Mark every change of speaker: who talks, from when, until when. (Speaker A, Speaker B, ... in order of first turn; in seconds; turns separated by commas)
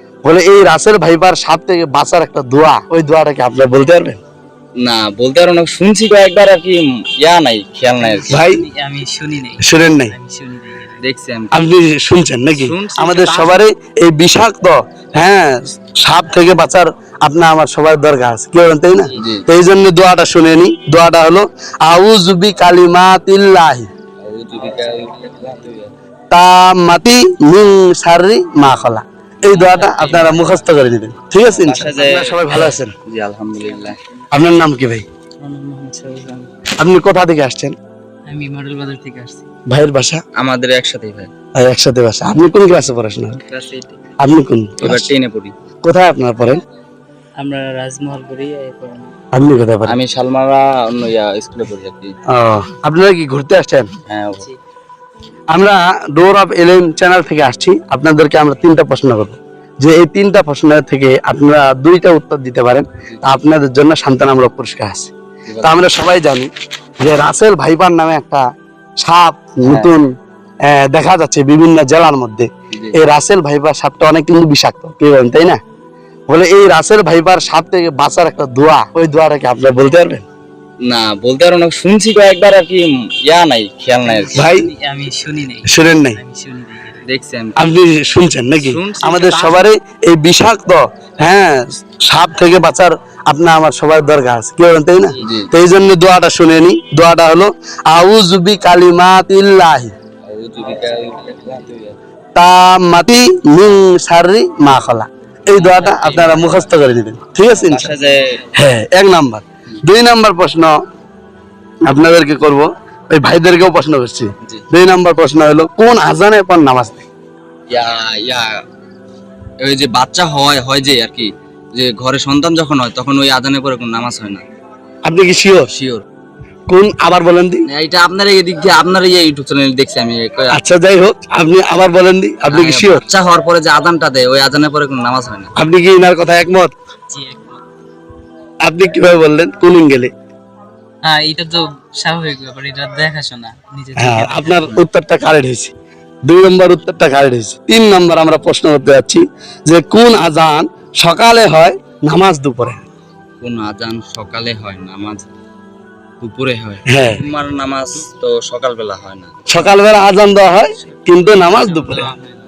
Speaker A: 0.2-4.2, Speaker B: 4.8-8.4, Speaker C: 8.0-11.0, Speaker A: 8.3-8.7, Speaker A: 9.6-10.1, Speaker B: 11.0-11.6, Speaker A: 11.5-23.9, Speaker B: 12.5-13.6, Speaker B: 19.1-19.5, Speaker B: 24.2-25.9, Speaker A: 26.3-33.0, Speaker B: 29.5-30.6, Speaker B: 31.4-34.0, Speaker A: 34.3-35.0, Speaker C: 35.4-36.5, Speaker A: 36.8-37.8, Speaker C: 38.3-39.5, Speaker A: 39.7-40.2, Speaker B: 40.4-41.3, Speaker A: 41.5-43.5, Speaker A: 44.2-45.1, Speaker B: 44.8-45.5, Speaker A: 45.8-46.6, Speaker C: 47.4-49.1, Speaker A: 49.3-50.0, Speaker B: 49.8-52.1, Speaker A: 52.3-53.9, Speaker B: 54.1-54.5, Speaker A: 55.5-65.1, Speaker B: 65.5-65.8, Speaker A: 65.6-68.4, Speaker A: 69.0-70.1, Speaker B: 69.7-69.9, Speaker A: 70.7-75.6, Speaker B: 72.7-73.0, Speaker A: 76.3-80.2, Speaker B: 80.8-84.5, Speaker C: 84.2-87.0, Speaker A: 84.3-84.7, Speaker A: 85.7-86.2, Speaker B: 87.0-87.7, Speaker A: 87.6-99.9, Speaker B: 88.6-89.7, Speaker B: 95.2-95.5, Speaker B: 100.3-102.0, Speaker A: 102.3-108.0, Speaker B: 105.5-106.7, Speaker B: 107.5-108.5, Speaker A: 108.5-110.7, Speaker A: 111.9-117.0, Speaker B: 117.7-118.5, Speaker B: 119.6-124.4, Speaker A: 125.0-125.7, Speaker B: 125.6-126.0, Speaker A: 126.7-127.7, Speaker B: 127.7-130.6, Speaker A: 130.5-133.0, Speaker B: 132.5-135.5, Speaker A: 135.6-136.7, Speaker C: 137.1-137.6, Speaker A: 138.6-140.1, Speaker C: 141.0-144.6, Speaker A: 144.0-145.7, Speaker A: 146.2-152.8, Speaker B: 153.4-155.3, Speaker B: 156.2-159.6, Speaker A: 156.9-157.2, Speaker A: 159.5-162.2, Speaker B: 161.9-162.1